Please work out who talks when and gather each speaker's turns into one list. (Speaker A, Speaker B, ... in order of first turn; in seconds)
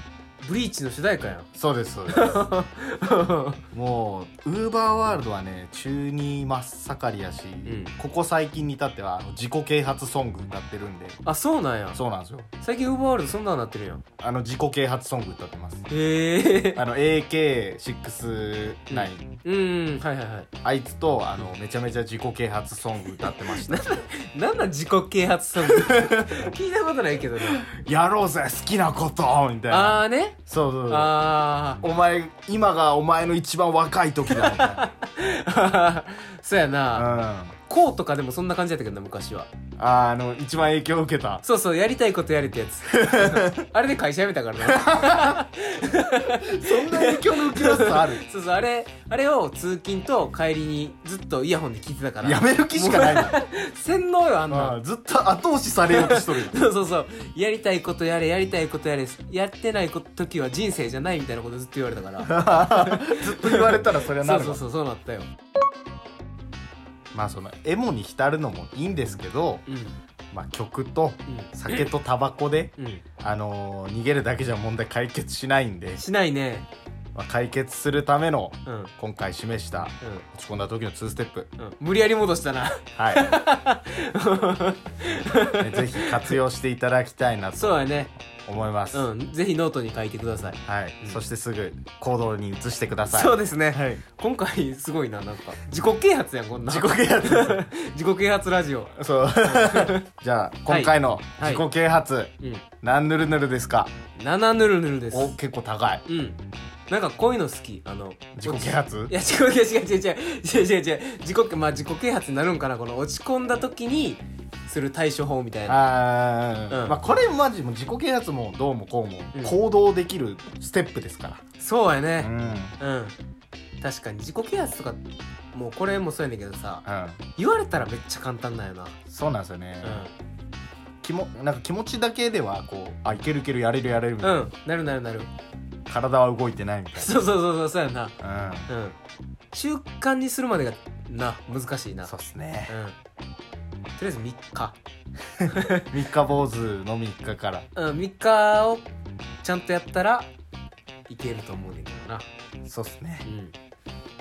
Speaker A: 0.4-1.5, 2.1-3.6, 7.7-7.9, 11.2-12.0, 12.6-14.0, 15.9-16.8, 18.9-20.5, 23.2-27.6, 29.7-31.8, 34.3-39.5, 41.4-54.8, 55.9-65.3, 69.7-69.9, 71.3-71.9, 72.8-73.0, 76.0-76.7, 78.7-78.9, 81.6-86.4, 87.5-88.1, 88.9-91.2, 93.1-100.0, 100.7-101.6, 104.2-105.3, 106.1-115.8, 116.7-117.0, 119.3-119.6, 121.6-123.1, 123.8-126.8, 127.3-128.9, 129.8-130.1, 134.2-135.3, 136.9-138.1, 138.7-138.9, 139.5-142.1, 142.7-142.9, 144.0-144.8, 145.5-145.9, 147.7-148.8, 149.4-150.3, 151.1-152.2, 153.2-153.5
Speaker B: 1.5-2.4, 3.7-11.2, 11.9-12.5, 14.2-15.9, 16.7-19.3, 20.6-23.9, 25.6-26.4, 27.4-31.3, 31.8-34.9, 36.9-37.5, 39.8-41.4, 42.9-43.6, 44.6-45.4, 46.3-48.2, 52.2-53.4, 54.5-56.5, 62.2-64.6, 67.1-69.6, 70.3-76.0, 77.1-81.5, 83.0-83.4, 85.6-89.1, 90.6-94.0, 96.7-97.7, 99.0-103.9, 105.1-106.0, 108.3-109.1, 115.7-121.4, 122.2-122.8, 126.8-127.2, 129.1-130.1, 131.0-134.5, 135.9-137.1, 138.2-138.7, 142.0-142.7, 145.4-147.7, 152.6-153.2